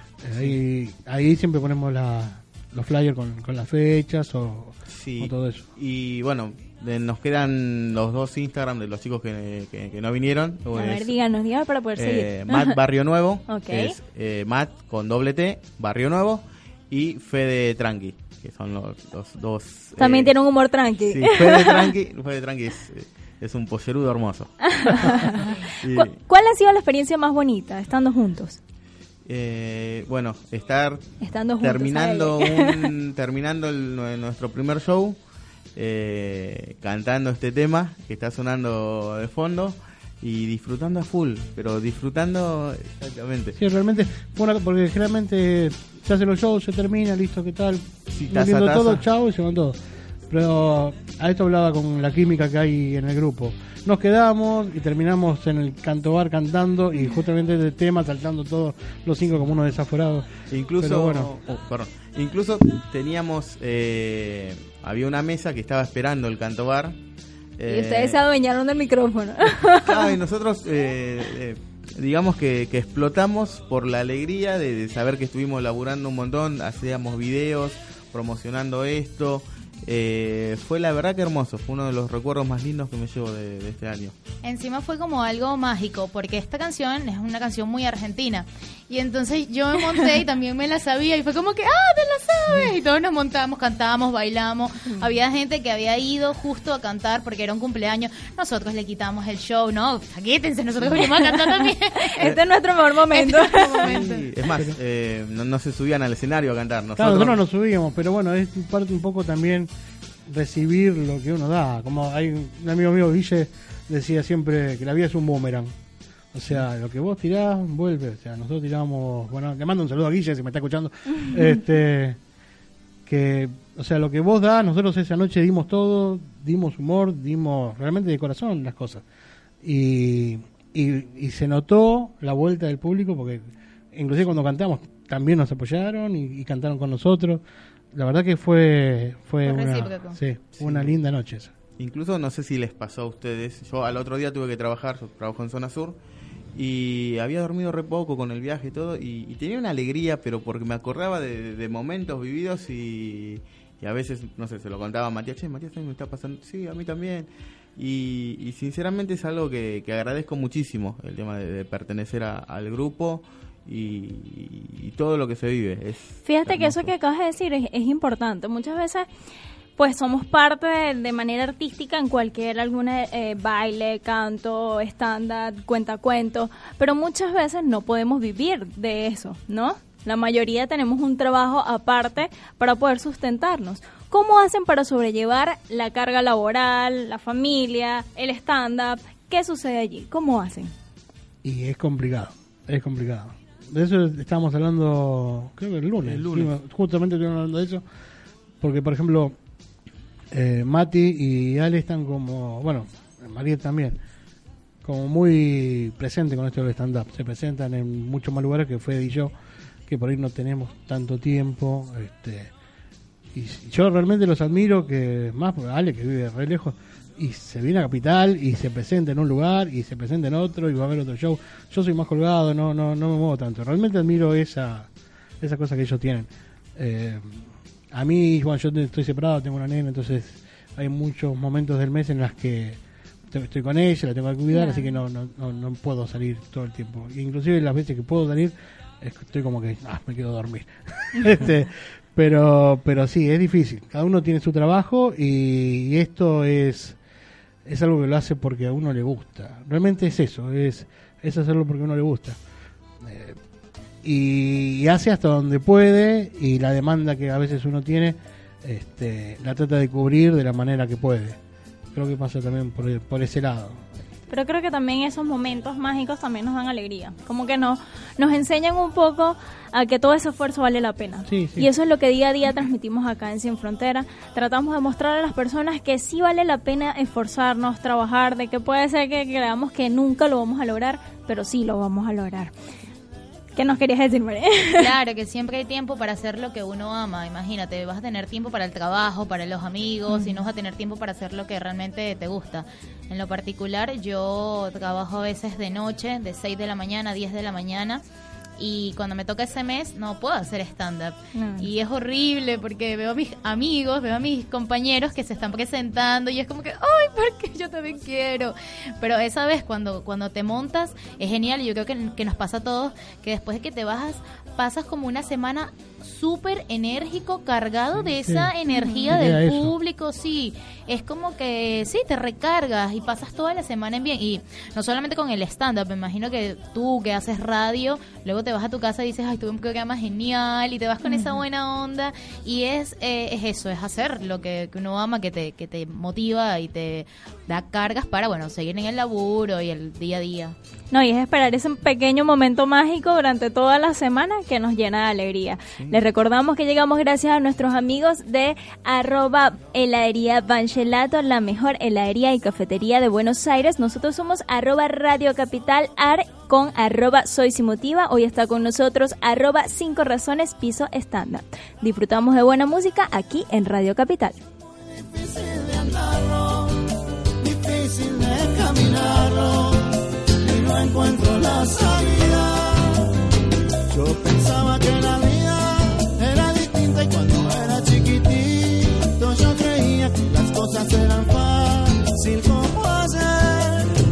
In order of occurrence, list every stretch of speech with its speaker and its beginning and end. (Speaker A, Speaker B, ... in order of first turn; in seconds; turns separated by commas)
Speaker A: 0.2-5.7, Speaker B: 4.9-11.2, Speaker C: 10.8-12.8, Speaker B: 12.0-20.3, Speaker C: 13.5-13.9, Speaker C: 20.0-21.9, Speaker B: 21.1-26.1, Speaker C: 24.7-28.6, Speaker B: 29.3-35.2, Speaker C: 31.2-32.9, Speaker B: 35.8-43.6, Speaker A: 43.6-49.8, Speaker B: 48.1-49.0, Speaker A: 50.3-61.4, Speaker B: 60.5-67.0, Speaker B: 67.6-68.2, Speaker C: 67.7-70.2, Speaker B: 69.7-84.2, Speaker D: 84.4-102.1, Speaker C: 101.0-103.9, Speaker D: 103.1-104.2, Speaker B: 103.8-107.4, Speaker A: 107.0-109.7, Speaker A: 110.3-115.7, Speaker A: 116.3-122.2, Speaker A: 123.1-129.0, Speaker A: 129.6-141.5, Speaker D: 139.4-140.2, Speaker B: 140.6-140.9, Speaker B: 141.8-146.0, Speaker B: 146.5-166.9, Speaker C: 166.2-169.1, Speaker C: 169.8-190.7, Speaker A: 191.4-197.8, Speaker B: 196.0-196.6, Speaker A: 198.6-199.4, Speaker A: 200.3-204.0, Speaker A: 204.8-209.3, Speaker A: 209.9-212.5, Speaker A: 213.3-224.9, Speaker A: 225.4-247.0, Speaker C: 234.5-234.9, Speaker A: 247.7-252.4, Speaker A: 253.0-253.4, Speaker A: 254.0-261.4, Speaker A: 261.9-263.8, Speaker C: 264.3-282.5, Speaker A: 271.3-271.7, Speaker C: 283.6-284.9, Speaker D: 284.8-298.0, Speaker D: 298.6-340.6, Speaker C: 301.4-301.7, Speaker A: 318.0-318.5, Speaker C: 318.7-319.1, Speaker A: 319.1-319.7, Speaker C: 331.0-331.4, Speaker C: 340.9-364.4, Speaker E: 364.8-366.8, Speaker E: 367.4-373.1, Speaker E: 373.9-383.9